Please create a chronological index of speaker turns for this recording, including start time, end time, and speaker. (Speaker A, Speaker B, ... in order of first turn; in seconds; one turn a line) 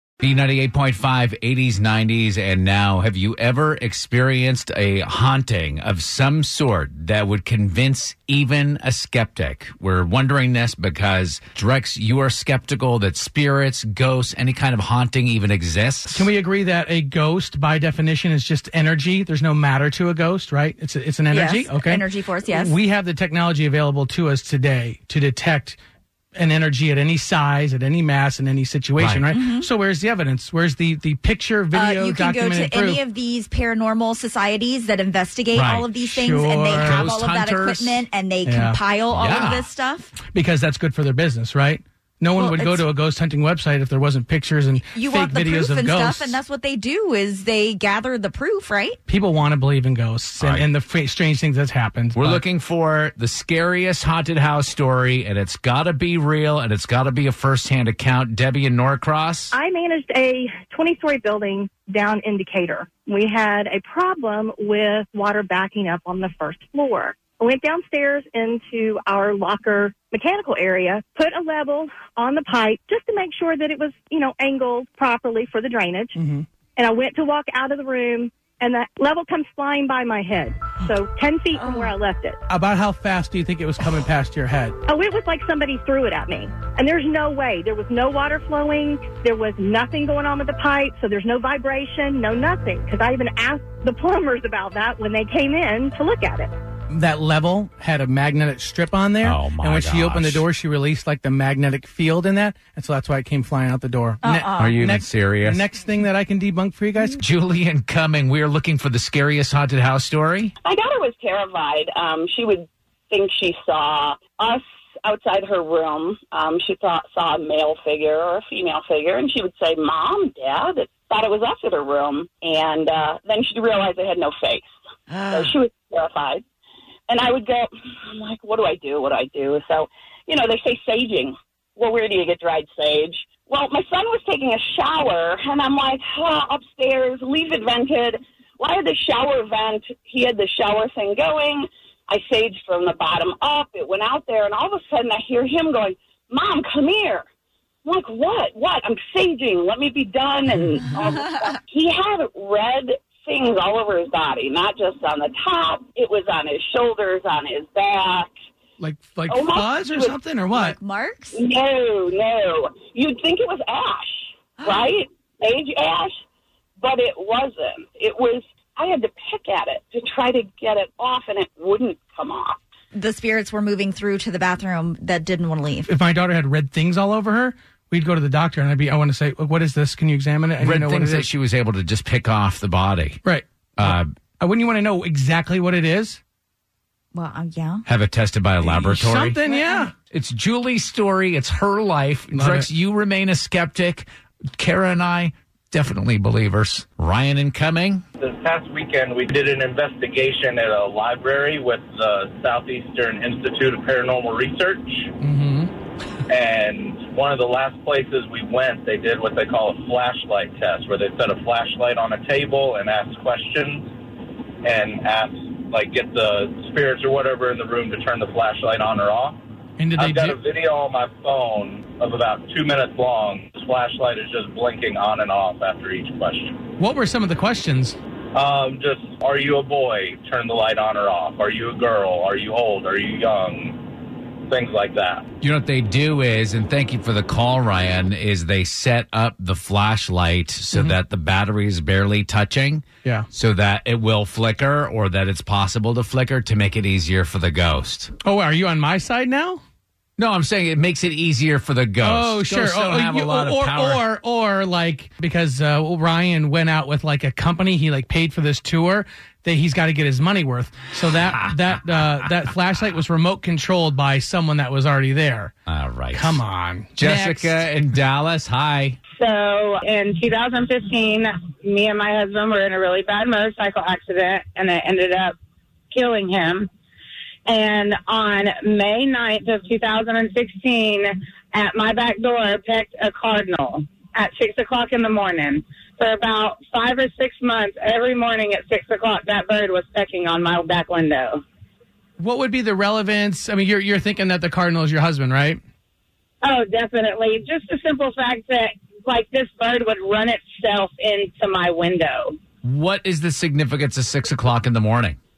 Speaker A: 0.2-16.3
Speaker B: 16.1-25.8
Speaker C: 21.3-22.8
Speaker B: 26.4-33.0
Speaker A: 29.0-29.4
Speaker C: 29.3-29.7
Speaker C: 31.7-40.1
Speaker A: 35.5-36.0
Speaker B: 36.0-37.2
Speaker A: 36.8-38.1
Speaker B: 38.4-38.8
Speaker A: 39.1-39.7
Speaker B: 40.2-46.4
Speaker C: 42.4-42.9
Speaker C: 44.9-49.0
Speaker B: 49.1-52.4
Speaker A: 50.4-50.7
Speaker A: 52.1-59.5
Speaker D: 59.5-76.2
Speaker B: 76.2-76.5
Speaker D: 76.8-82.4
Speaker B: 82.5-84.8
Speaker D: 84.9-96.5
Speaker B: 96.9-107.2
Speaker A: 99.2-100.5
Speaker C: 104.2-104.7
Speaker A: 104.5-105.6
Speaker A: 107.1-110.5
Speaker E: 110.6-124.7
Speaker E: 125.3-126.4
Speaker E: 127.1-147.3
Speaker E: 147.8-158.3
Speaker B: 158.8-160.8
Speaker E: 159.3-160.2
Speaker C: 160.5-161.4
Speaker E: 161.3-166.2
Speaker C: 164.6-164.9
Speaker E: 166.8-172.6
Speaker C: 172.9-175.9
Speaker B: 175.9-181.3
Speaker A: 180.6-183.2
Speaker B: 183.2-186.2
Speaker A: 183.8-184.1
Speaker C: 187.1-187.8
Speaker A: 187.9-189.4
Speaker B: 188.6-189.9
Speaker C: 189.5-189.8
Speaker A: 190.1-198.0
Speaker B: 192.3-192.7
Speaker F: 198.2-205.1
Speaker B: 205.2-205.7
Speaker F: 206.3-213.9
Speaker F: 214.6-219.4
Speaker B: 219.8-220.4
Speaker F: 220.0-226.7
Speaker B: 226.8-228.0
Speaker F: 228.3-235.3
Speaker A: 235.4-248.1
Speaker B: 248.2-249.6
Speaker A: 250.2-254.1
Speaker B: 252.0-265.5
Speaker A: 265.7-266.4
Speaker B: 266.1-267.6
Speaker A: 267.0-269.0
Speaker G: 269.2-275.4
Speaker G: 275.9-276.7
Speaker G: 277.5-291.4
Speaker B: 292.2-295.6
Speaker G: 296.4-302.4
Speaker A: 302.6-305.2